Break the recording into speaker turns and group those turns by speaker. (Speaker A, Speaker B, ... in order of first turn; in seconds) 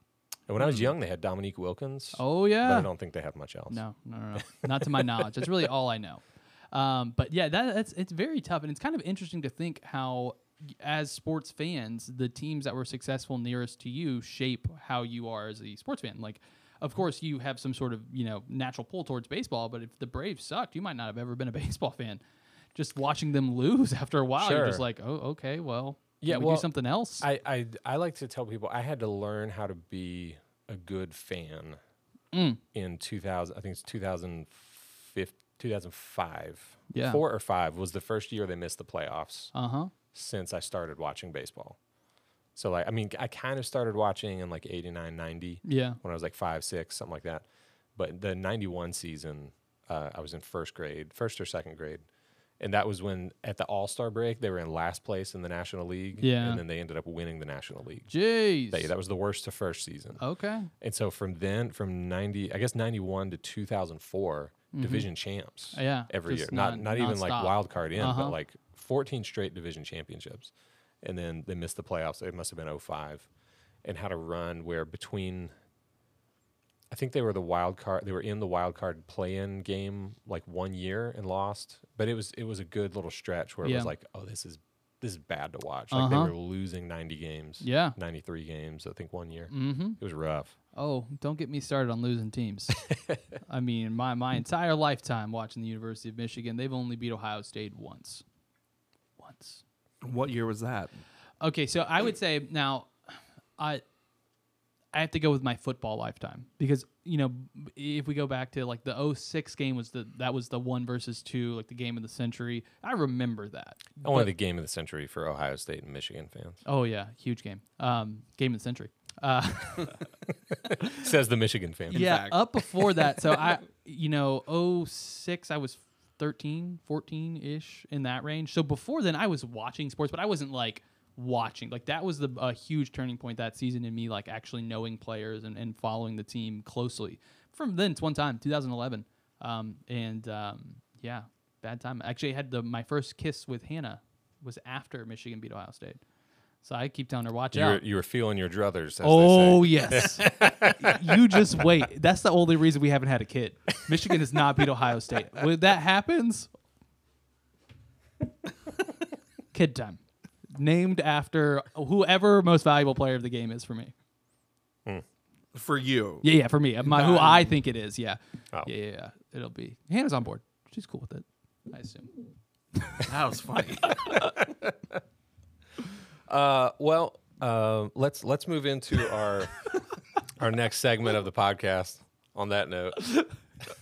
Speaker A: 0.5-3.8, 4.4-5.5, 24.4-24.8, 26.2-31.8, 32.7-39.5, 40.1-41.8, 42.6-52.0, 52.6-60.2, 60.8-73.3, 73.8-75.5, 76.9-90.5, 92.8-93.2, 114.0-116.6, 120.5-122.1, 147.5-151.7, 176.3-179.7, 180.3-183.3
Speaker B: 2.2-2.9, 3.7-22.2, 22.8-27.3, 32.3-32.6, 36.9-37.2, 39.5-39.9, 45.6-46.0, 56.2-56.6, 58.1-58.9, 60.2-60.7, 64.7-65.1, 65.7-68.4, 83.6-83.9, 85.9-86.3, 87.6-88.0, 89.5-90.0, 90.8-92.8, 93.4-98.2, 99.2-99.6, 101.4-103.8, 104.9-114.3, 116.7-120.0, 121.9-146.0, 146.6-147.8, 149.0-156.5, 159.5-160.0, 160.5-163.9, 166.2-172.1, 172.8-173.1, 173.8-174.3
Speaker C: 100.0-101.0, 121.9-122.4, 165.5-166.3, 166.8-167.6, 173.1-174.0